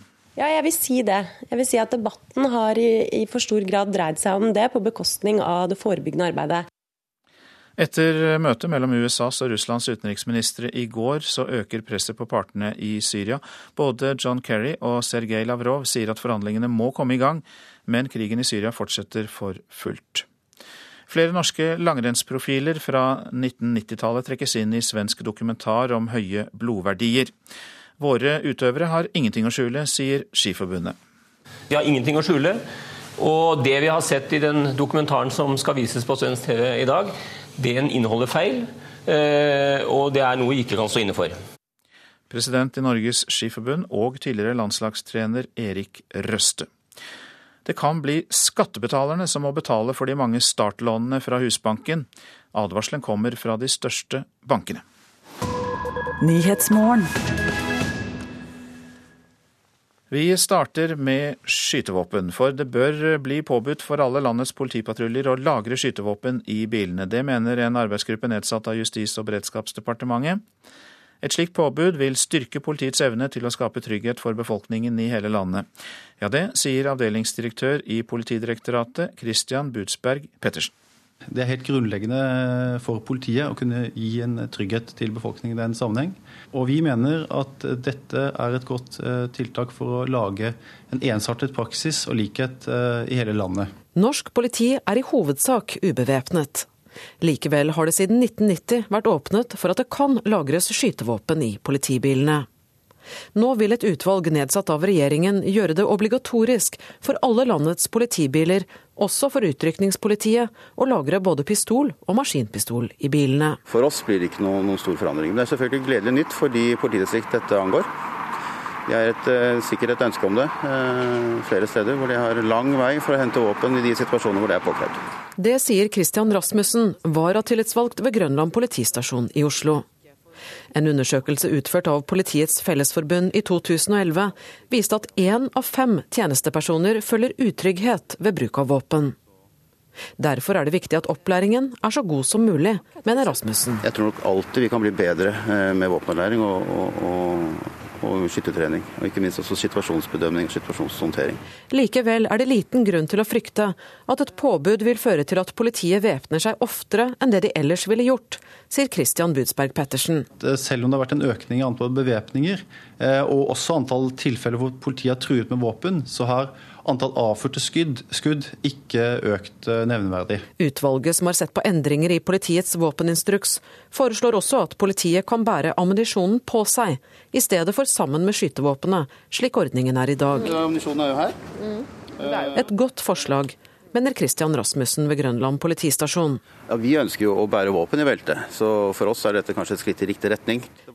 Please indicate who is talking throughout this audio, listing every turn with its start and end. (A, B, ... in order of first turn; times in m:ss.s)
0:00.4-0:06.7 A
0:07.8-0:20.3 B
0:21.1-0:27.3 B
0:28.0-0:31.0 B
0:31.7-0:32.6 C
0:33.2-0:41.4 C
0:42.3-0:46.7 B
0:47.6-0:54.8 B
1:00.1-1:10.4 B
1:11.2-1:15.7 B
1:16.2-1:20.7 B
1:21.3-1:33.8 D
1:34.0-1:36.7 E
1:37.2-1:42.5 E
1:43.4-1:53.6 E
1:53.7-1:57.9 F
1:58.9-2:05.0 F
2:05.4-2:09.8 E
2:10.7-2:19.2 E
2:20.2-2:23.8 E
2:23.8-2:31.4 F
2:31.7-2:40.3 E
2:40.3-2:50.5 D
2:50.6-3:00.4 E
3:00.5-3:01.4 F
3:02.2-3:02.6 F
3:02.6-3:06.4 E
3:06.6-3:10.7 F